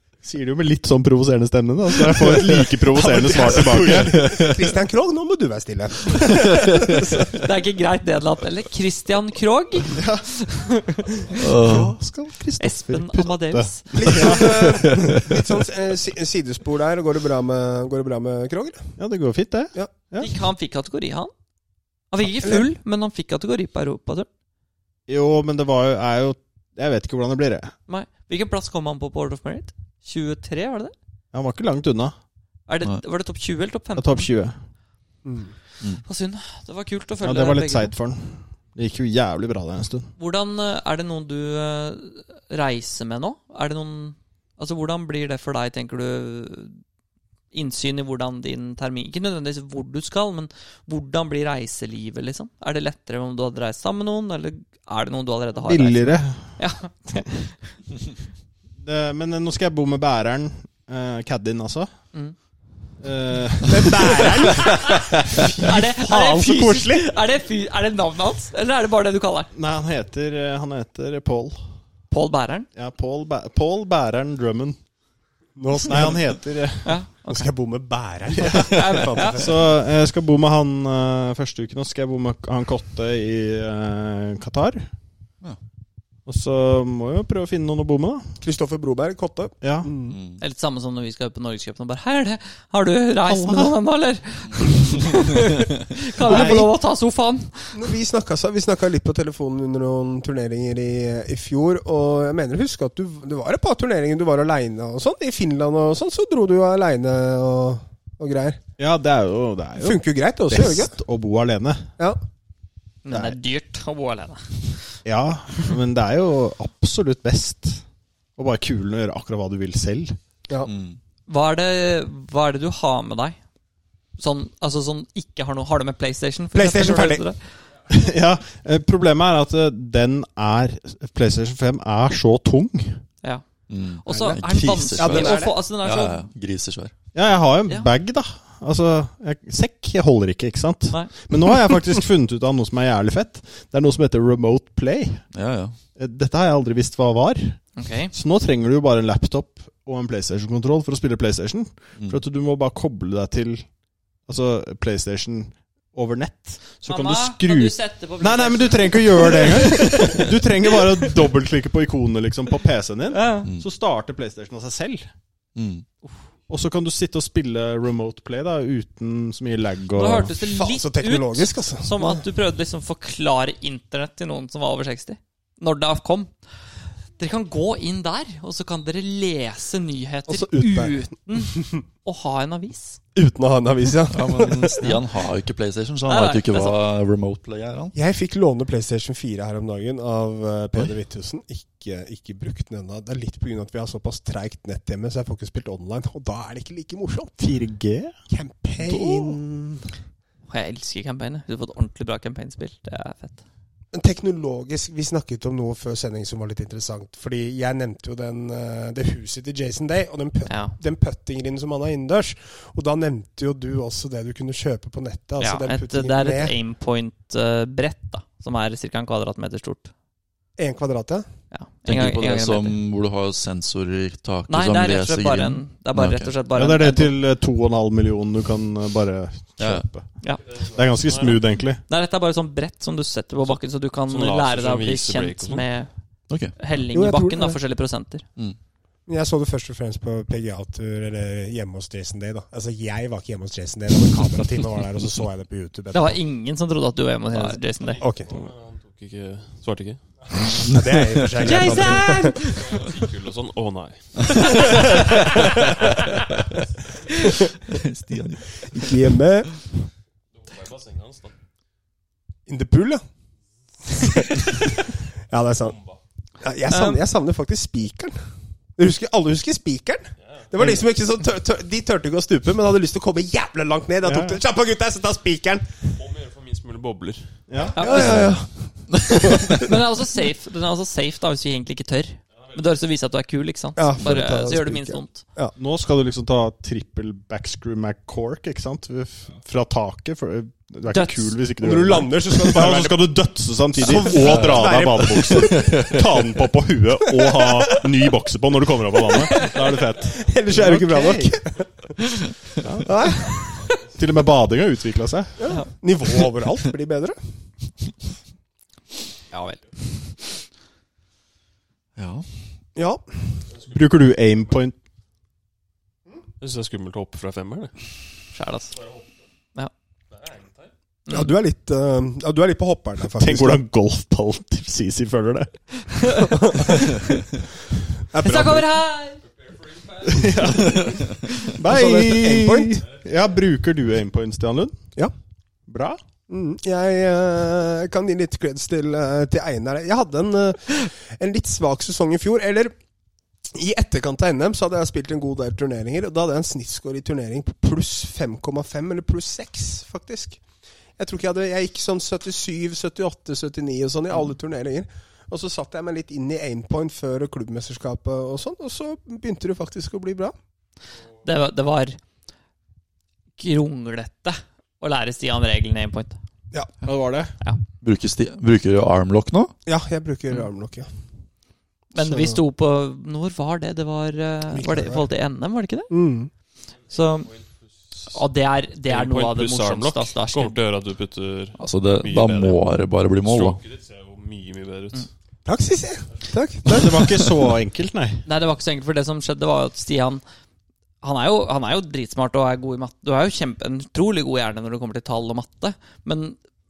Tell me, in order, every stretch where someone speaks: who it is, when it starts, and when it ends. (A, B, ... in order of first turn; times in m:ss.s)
0:00.2-0:04.4 A
0:02.9-0:07.4 B
0:04.2-0:04.5 C
0:07.3-0:11.4 D
0:09.9-0:10.3 A
0:11.4-0:11.9 C
0:11.6-0:15.2 A
0:12.6-0:14.2 D
0:13.9-0:19.0 B
0:19.0-0:20.3 A
0:20.2-0:21.3 D
0:22.1-0:24.3 D
0:25.1-0:27.7 A
0:27.9-0:30.9 D
0:31.3-0:32.1 A
0:32.7-0:34.3 D
0:34.0-0:34.6 A
0:35.2-0:35.5 B
0:36.0-0:37.9 D
0:37.2-0:40.1 A
0:40.2-0:46.8 D
0:47.5-0:57.6 D
0:55.6-0:56.6 A
0:58.8-1:01.9 A
1:03.0-1:05.4 A
1:03.6-1:07.1 B
1:04.6-1:04.9 D
1:05.5-1:09.5 D
1:09.5-1:11.6 A
1:12.1-1:12.7 D
1:12.7-1:14.8 A
1:15.6-1:16.3 B
1:15.8-1:17.0 A
1:16.8-1:17.5 D
1:17.3-1:19.6 B
1:18.4-1:24.9 A
1:18.5-1:19.5 D
1:26.2-1:28.4 A
1:28.4-1:30.2 B
1:29.6-1:29.9 A
1:30.1-1:30.4 C
1:30.4-1:37.8 D
1:33.2-1:33.7 A
1:36.2-1:36.7 B
1:36.2-1:36.7 A
1:37.7-1:48.6 B
1:48.8-1:51.9 A
1:49.8-1:50.9 B
1:53.0-1:54.8 D
1:53.1-1:53.4 A
1:55.0-1:57.8 A
1:58.4-2:00.2 A
2:00.6-2:01.0 C
2:01.3-2:03.4 D
2:04.2-2:07.4 D
2:06.5-2:07.2 B
2:07.9-2:13.0 A
2:13.7-2:16.9 C
2:14.0-2:16.3 D
2:15.0-2:15.6 B
2:17.1-2:25.3 A
2:25.3-2:25.8 C
2:26.0-2:33.7 A
2:27.8-2:28.1 D
2:34.2-2:45.1 A
2:36.8-2:40.3 D
2:43.1-2:43.5 D
2:45.5-2:45.8 C
2:46.5-2:50.3 A
2:49.9-2:56.3 D
2:50.4-2:52.2 B
2:57.2-3:03.0 D
3:00.3-3:01.8 B
3:03.1-3:05.0 B
3:04.1-3:07.9 C
3:06.0-3:06.8 D
3:07.9-3:17.4 B
3:17.4-3:18.1 A
3:18.3-3:19.4 B
3:18.9-3:19.3 A
3:20.5-3:23.4 D
3:23.9-3:36.5 B
3:30.5-3:30.8 D
3:35.4-3:39.9 D
3:40.6-3:41.3 B
3:41.5-3:42.8 D
3:41.8-3:46.3 C
3:44.5-3:47.1 D
3:46.5-3:50.1 A
3:49.6-3:49.8 C
3:50.5-3:51.4 E
3:50.6-3:51.8 A
3:51.9-3:55.9 D
3:53.5-3:55.6 E
3:56.3-3:56.5 C
3:56.5-3:58.2 D
3:56.9-3:57.6 B
3:59.1-4:06.2 B
4:05.9-4:08.0 D
4:07.4-4:08.3 B
4:07.9-4:10.0 E
4:10.6-4:12.5 B
4:11.4-4:12.9 D
4:12.6-4:15.2 E
4:17.7-4:19.1 C
4:18.7-4:19.6 B
4:20.4-4:21.3 E
4:22.5-4:23.0 B
4:23.9-4:25.8 B
4:25.6-4:26.0 E
4:26.4-4:28.2 B
4:26.7-4:27.0 D
4:28.8-4:35.9 B
4:34.0-4:34.4 A
4:36.0-4:37.4 E
4:37.5-4:38.3 A
4:37.8-4:38.2 D
4:37.8-4:39.7 B
4:39.4-4:45.2 D
4:43.8-4:45.5 B
4:45.6-5:01.4 A
4:50.9-4:51.4 D
4:51.6-4:53.1 B
4:53.8-4:55.9 B
4:54.1-4:54.6 C
4:55.3-4:55.9 C
4:57.1-4:57.8 B
4:59.1-4:59.5 B
5:00.1-5:02.1 B
5:02.6-5:02.9 A
5:02.8-5:03.8 B
5:03.9-5:05.4 A
5:05.4-5:07.2 B
5:09.3-5:09.6 D
5:12.0-5:12.3 C
5:12.8-5:13.2 B
5:13.7-5:14.8 A
5:16.4-5:17.7 E
5:18.3-5:18.7 D
5:20.1-5:20.7 E
5:21.1-5:21.3 D
5:21.1-5:23.6 B
5:23.0-5:25.5 A
5:25.9-5:27.0 D
5:26.2-5:26.8 B
5:28.1-5:28.7 B
5:28.2-5:29.2 D
5:29.8-5:30.2 E
5:30.0-5:34.8 A
5:31.5-5:32.8 B
5:35.7-5:36.0 A
5:36.3-5:42.7 B
5:43.5-5:50.4 B
5:51.0-6:00.3 B
6:01.2-6:02.0 D
6:03.4-6:06.2 D
6:06.8-6:07.3 A
6:07.8-6:09.5 C
6:09.6-6:10.9 B
6:11.9-6:15.9 D
6:12.0-6:12.4 B
6:14.5-6:15.1 B
6:15.9-6:16.3 B
6:16.9-6:17.3 D
6:17.2-6:18.2 E
6:18.1-6:20.6 D
6:18.8-6:25.1 E
6:21.6-6:23.6 C
6:25.4-6:27.2 B
6:26.6-6:28.2 A
6:28.2-6:30.2 D
6:31.0-6:36.4 D